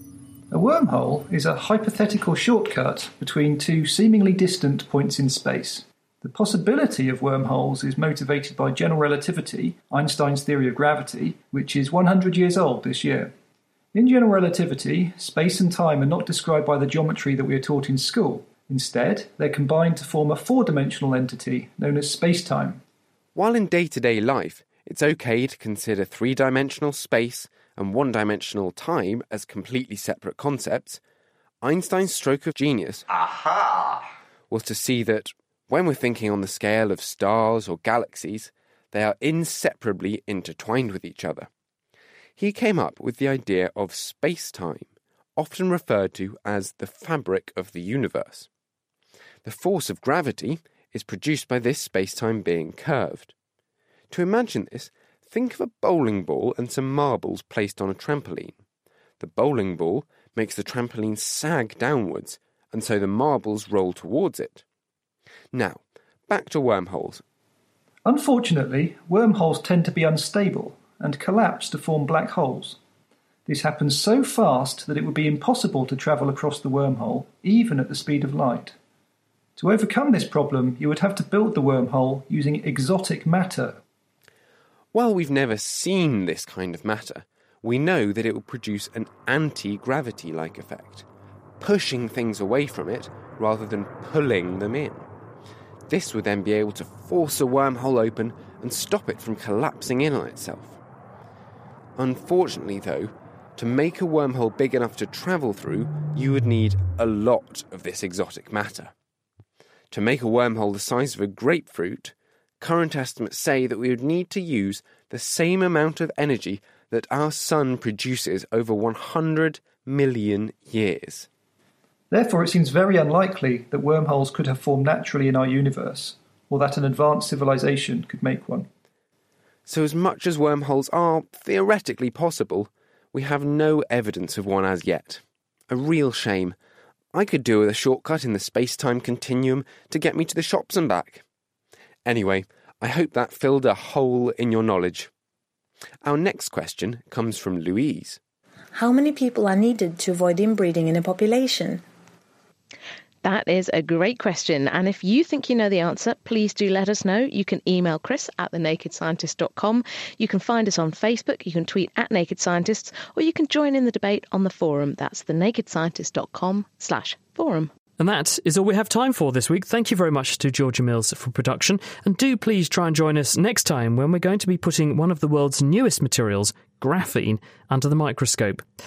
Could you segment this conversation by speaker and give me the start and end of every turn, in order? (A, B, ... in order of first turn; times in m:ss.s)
0:00.5-0:13.3 A
0:13.9-0:22.8 A
0:23.3-0:31.0 B
0:31.6-0:33.0 B
0:34.5-0:41.5 B
0:42.4-0:48.5 B
0:49.4-0:53.3 B
0:54.1-0:58.6 B
0:59.2-1:04.6 B
1:05.5-1:07.2 B
1:08.0-1:12.8 A
1:13.4-1:18.7 A
1:19.6-1:23.8 A
1:24.9-1:31.0 B
1:31.6-1:35.1 B
1:35.9-1:40.8 B
1:42.0-1:48.9 B
1:49.9-2:01.3 B
2:02.1-2:08.7 A
2:09.7-2:16.6 B
2:17.1-2:21.2 B
2:22.0-2:25.1 B
2:26.0-2:28.2 B
2:28.7-2:31.8 C
2:33.2-2:47.7 D
2:48.0-2:58.6 E